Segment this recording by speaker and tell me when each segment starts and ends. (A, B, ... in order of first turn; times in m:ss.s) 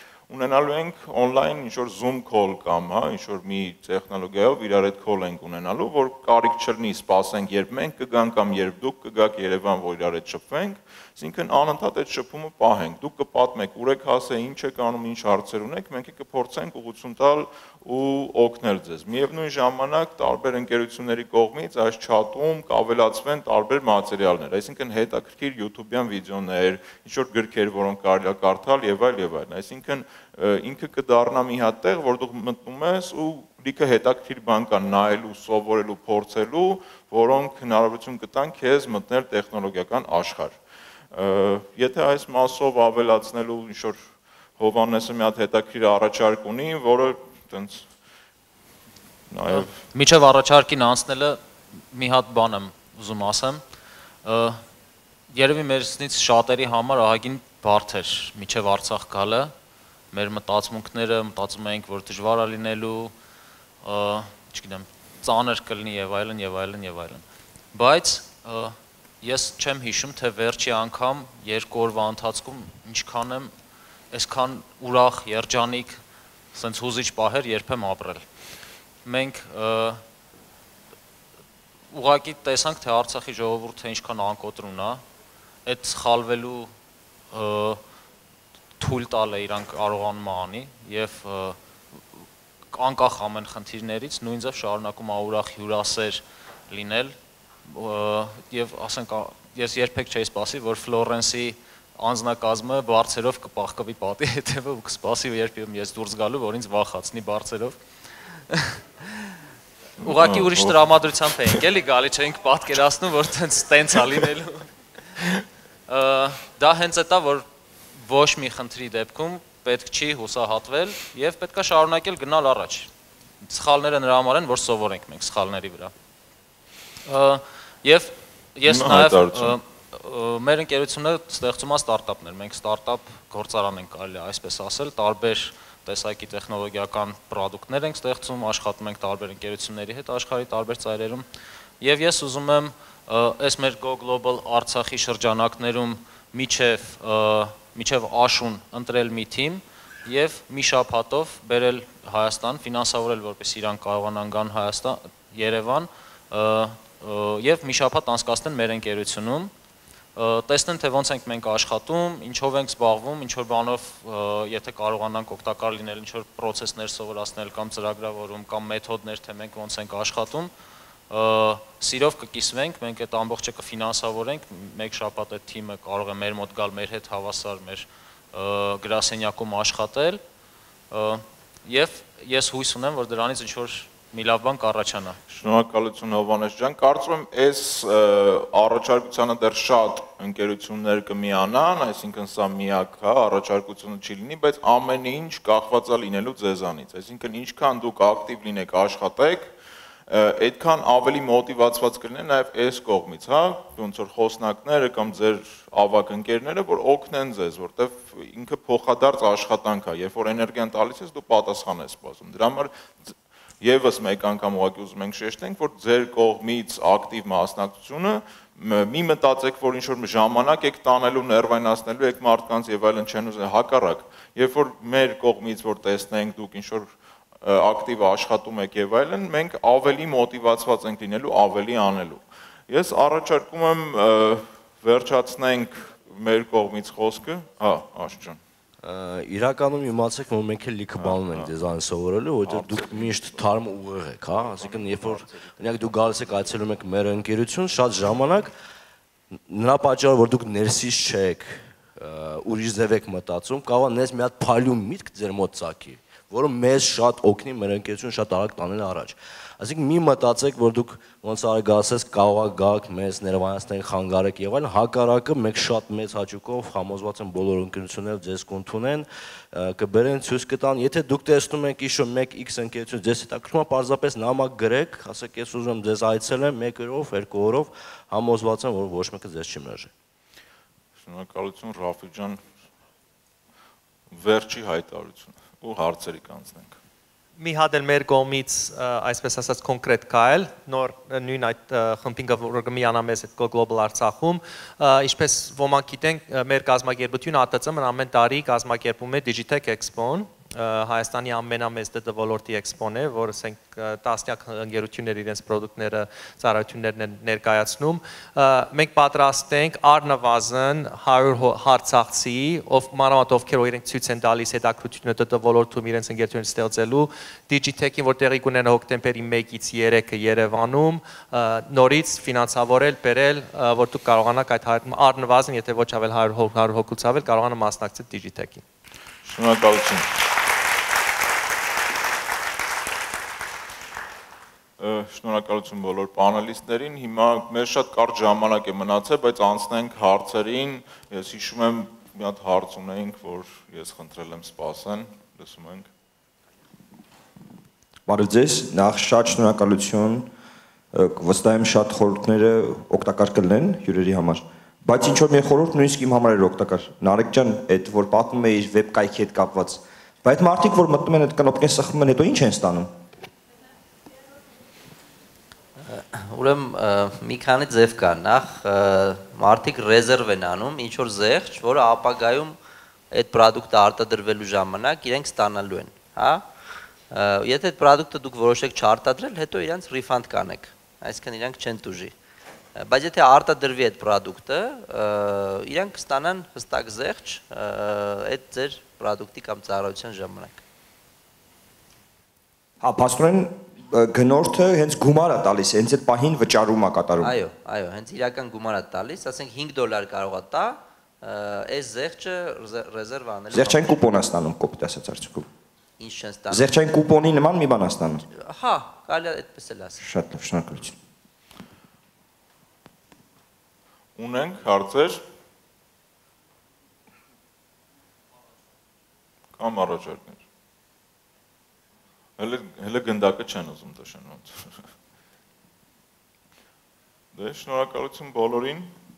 0:00.3-0:40.6 A
0:41.1-0:47.9 A
0:49.3-0:49.8 A
0:49.5-0:53.6 B
0:54.2-0:54.6 B
0:55.3-0:59.5 B
1:00.1-1:03.1 B
1:03.8-1:13.5 B
1:14.1-1:16.0 B
1:16.5-1:18.2 B
1:19.0-1:20.0 B
1:21.9-1:25.0 B
1:25.6-1:26.7 B
1:27.3-1:27.8 B
1:28.8-1:31.6 B
1:32.7-1:47.8 B
1:48.5-1:49.1 B
1:50.0-1:54.7 B
1:50.0-1:51.6 A
1:55.9-2:02.9 B
2:03.4-2:05.9 B
2:07.0-2:21.2 B
2:08.6-2:09.6 A
2:21.8-2:39.5 B
2:40.1-2:50.5 B
2:51.1-3:00.2 B
3:00.9-3:05.2 B
3:05.3-3:19.5 A
3:20.1-3:46.9 A
3:47.4-3:58.4 A
3:58.8-4:08.5 C
4:01.0-4:01.5 A
4:02.4-4:03.5 A
4:04.3-4:06.6 A
4:09.5-4:39.9 C
4:41.0-4:42.5 A
4:44.1-4:46.8 A
4:47.4-5:28.6 D
5:29.2-5:30.0 A
5:34.8-5:45.9 A
5:48.0-5:50.3 E
5:50.9-6:02.9 E
6:05.8-6:12.6 F
6:13.1-6:16.5 F
6:17.1-6:22.1 F
6:22.8-6:30.6 F
6:32.8-6:37.3 E
6:37.2-6:44.0 F
6:43.5-6:45.5 E
6:46.0-6:46.7 F
6:46.5-6:48.2 E
6:48.3-6:50.0 F
6:50.0-6:51.0 E
6:54.2-6:55.2 A
6:59.6-7:00.4 A
7:02.4-7:04.9 A
7:07.3-7:08.9 A